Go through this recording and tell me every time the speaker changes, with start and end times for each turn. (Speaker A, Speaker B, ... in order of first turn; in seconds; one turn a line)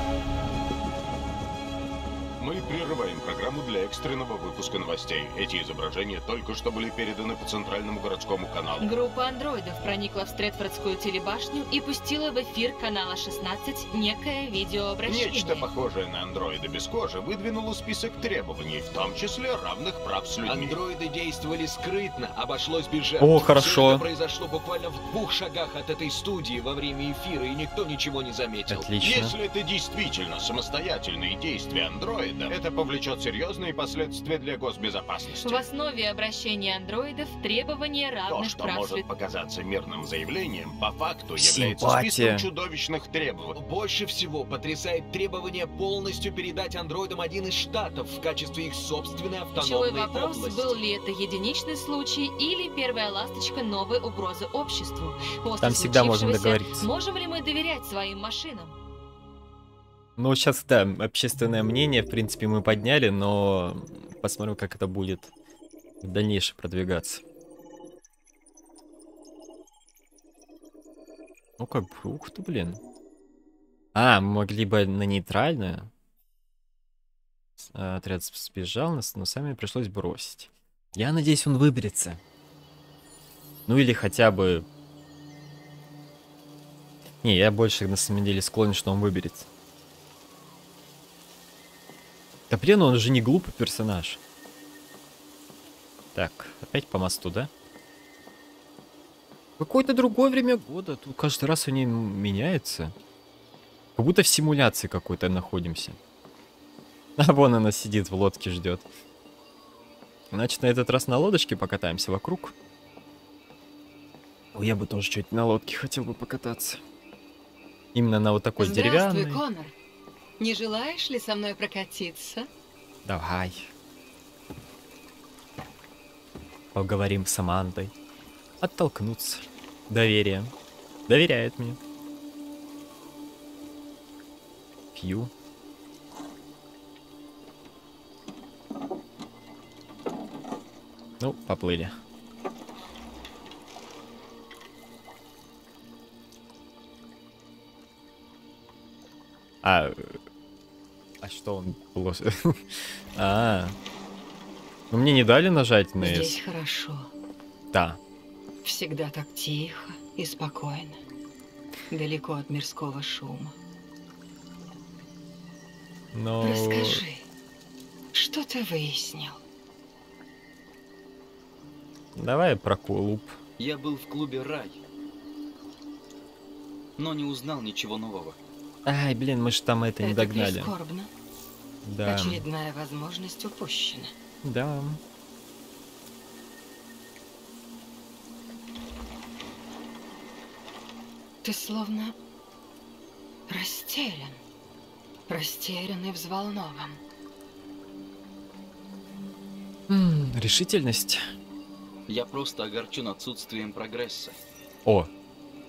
Speaker A: 2.4-9.0
Speaker B: 8.8-15.7
Speaker A: 15.0-20.8
Speaker C: 20.4-28.9
Speaker D: 23.2-24.1
Speaker D: 28.7-29.4
Speaker A: 29.0-35.6
Speaker B: 35.4-39.1
Speaker A: 38.3-43.6
Speaker D: 41.4-42.5
Speaker C: 43.5-50.8
Speaker B: 49.5-58.7
Speaker D: 55.6-56.9
Speaker D: 60.2-65.3
Speaker D: 66.0-67.2
Speaker D: 71.6-72.8
Speaker D: 73.9-75.9
Speaker D: 77.6-82.2
Speaker D: 83.7-84.7
Speaker D: 87.2-89.5
Speaker D: 92.5-94.2
Speaker D: 96.1-97.5
Speaker D: 99.6-102.9
Speaker D: 104.0-106.0
Speaker D: 107.2-108.9
Speaker D: 110.3-112.5
Speaker D: 114.5-116.8
Speaker D: 117.9-119.4
Speaker E: 118.6-119.7
Speaker E: 120.4-122.5
Speaker D: 123.0-123.7
Speaker D: 126.7-127.9
Speaker D: 128.6-130.5
Speaker D: 131.1-131.8
Speaker D: 134.9-135.3
Speaker D: 141.2-141.9
Speaker D: 149.6-150.2
Speaker D: 151.2-152.6
Speaker D: 153.2-153.8
Speaker D: 154.9-156.4
Speaker E: 156.0-157.1
Speaker D: 157.7-158.0
Speaker E: 158.6-161.0
Speaker E: 161.9-163.5
Speaker D: 166.1-167.0
Speaker E: 166.4-167.2
Speaker E: 168.1-169.4
Speaker D: 172.2-173.3
Speaker F: 173.6-174.8
Speaker F: 177.0-178.4
Speaker D: 178.8-180.7
Speaker E: 180.0-181.1
Speaker D: 181.8-182.4
Speaker E: 182.0-184.1
Speaker D: 184.4-185.0
Speaker E: 191.4-192.1
Speaker E: 193.5-194.4
Speaker E: 195.3-197.0
Speaker D: 199.9-201.2
Speaker F: 202.1-204.4